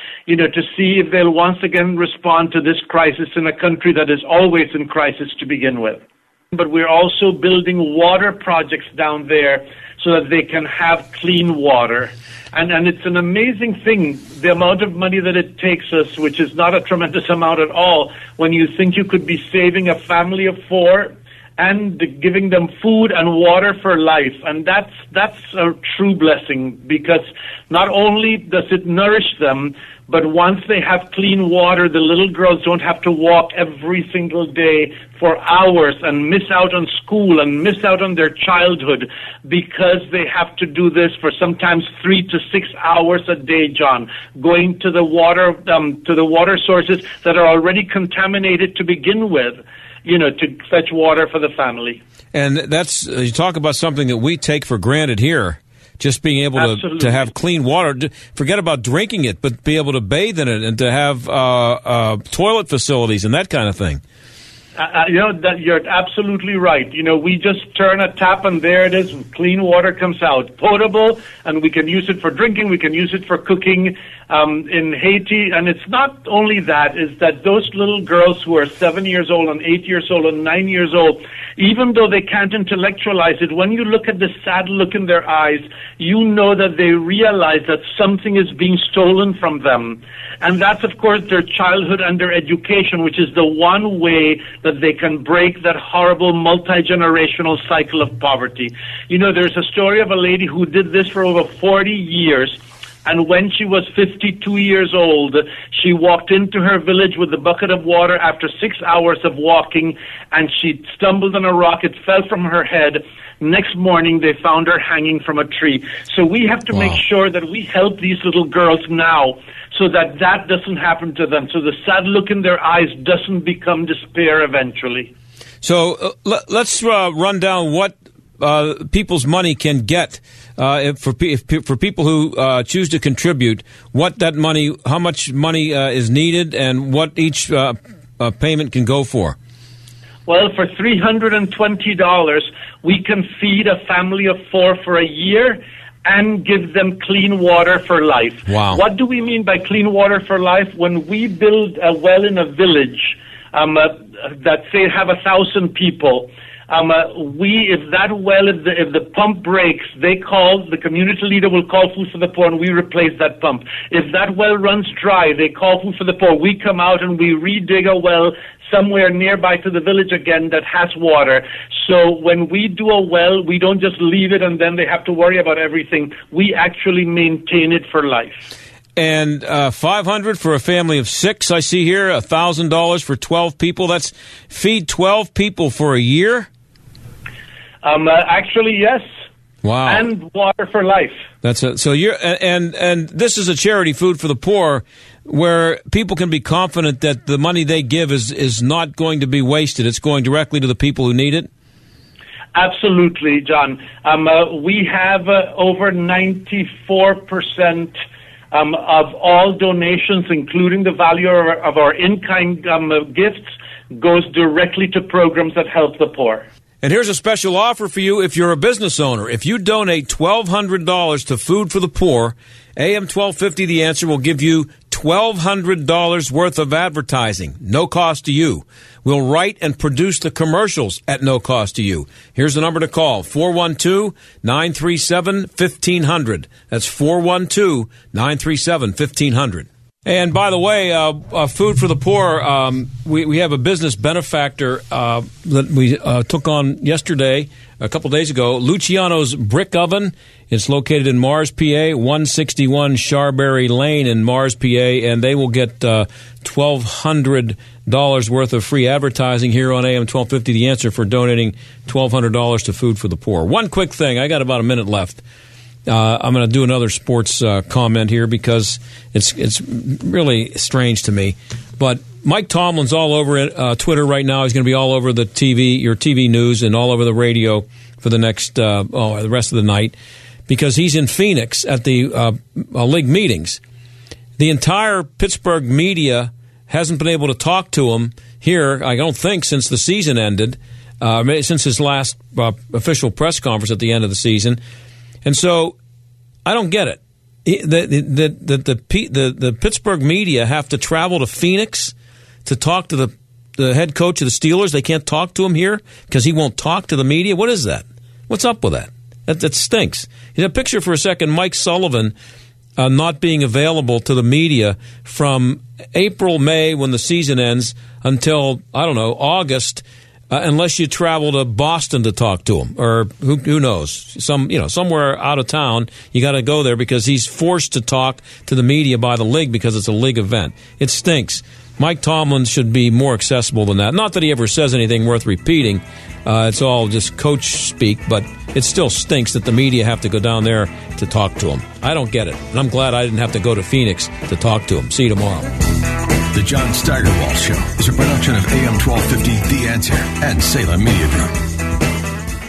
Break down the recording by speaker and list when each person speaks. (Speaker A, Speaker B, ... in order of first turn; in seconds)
Speaker A: 0.3-6.0, 6.5-52.0, 56.6-57.3, 64.8-125.1, 140.3-178.5, 187.8-189.1, 189.9-191.2, 202.6-207.9, 208.5-216.4
Speaker B: 52.3-64.0, 116.7-117.0, 125.6-139.4, 148.5-148.8, 179.0-186.5, 189.6-190.1, 191.4-201.5, 216.8-265.2, 265.9-280.0, 280.5-283.6, 284.4-294.6, 295.2-295.8, 296.4-301.9, 302.4-312.1, 312.8-345.5
Speaker C: 346.3-351.4